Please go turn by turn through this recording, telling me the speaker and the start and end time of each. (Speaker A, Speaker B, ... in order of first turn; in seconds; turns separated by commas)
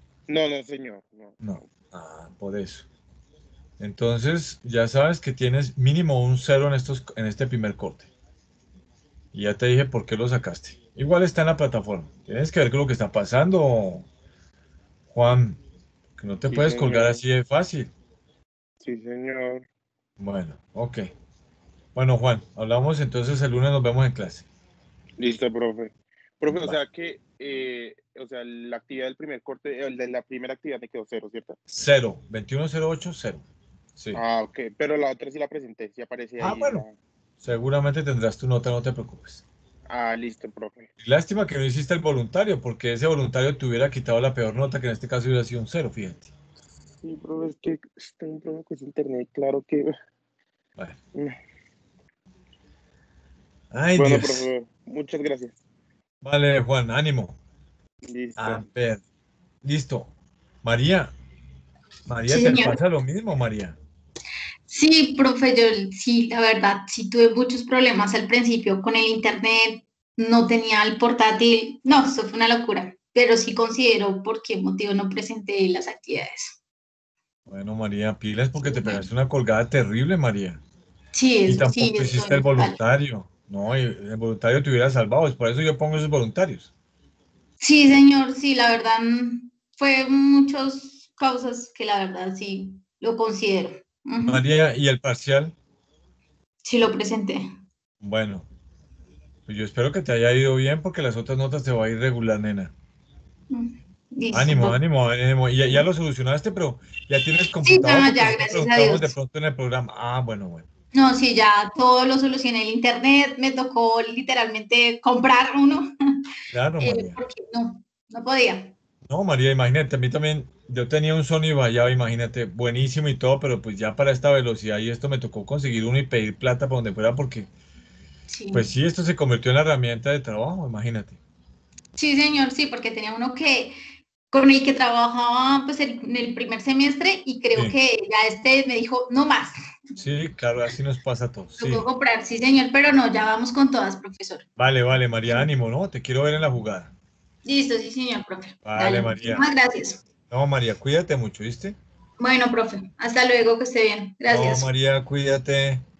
Speaker A: 0.3-1.5, Speaker B: 1.4-2.9, Speaker B: 3.8-8.1, Speaker B: 9.3-14.1, Speaker B: 15.1-15.6, Speaker B: 16.2-17.9, Speaker A: 16.5-17.2, Speaker A: 18.8-19.6, Speaker B: 20.2-21.1, Speaker B: 21.9-24.4, Speaker A: 25.2-31.6, Speaker B: 26.5-26.8, Speaker B: 31.7-33.4, Speaker A: 34.1-36.9, Speaker B: 36.4-36.8, Speaker B: 37.4-39.4, Speaker A: 39.9-40.9, Speaker B: 41.0-46.3, Speaker A: 47.0-49.9, Speaker B: 53.7-54.5, Speaker A: 54.0-55.5, Speaker B: 56.2-57.4, Speaker A: 58.1-58.6, Speaker B: 58.4-59.0, Speaker B: 59.6-60.1, Speaker B: 60.6-61.1, Speaker B: 62.1-63.8, Speaker C: 62.3-62.8, Speaker C: 64.7-76.6, Speaker B: 77.5-80.6, Speaker C: 78.6-79.1, Speaker C: 81.2-82.8, Speaker B: 81.5-86.7, Speaker C: 87.6-94.5, Speaker B: 94.3-95.5, Speaker C: 96.6-97.4, Speaker B: 98.0-98.5, Speaker B: 99.5-102.7, Speaker C: 103.5-104.8, Speaker B: 104.3-110.7, Speaker C: 107.6-109.1, Speaker C: 110.9-115.9, Speaker B: 116.5-117.2, Speaker C: 116.8-118.8, Speaker B: 119.1-127.5, Speaker C: 128.3-128.7, Speaker B: 128.5-131.2, Speaker C: 132.0-133.8, Speaker C: 134.3-139.5, Speaker B: 140.0-141.9, Speaker C: 141.6-144.4, Speaker B: 144.6-146.9, Speaker C: 147.4-150.0, Speaker B: 148.6-149.5, Speaker B: 150.3-151.8, Speaker C: 152.2-154.7, Speaker B: 154.3-155.8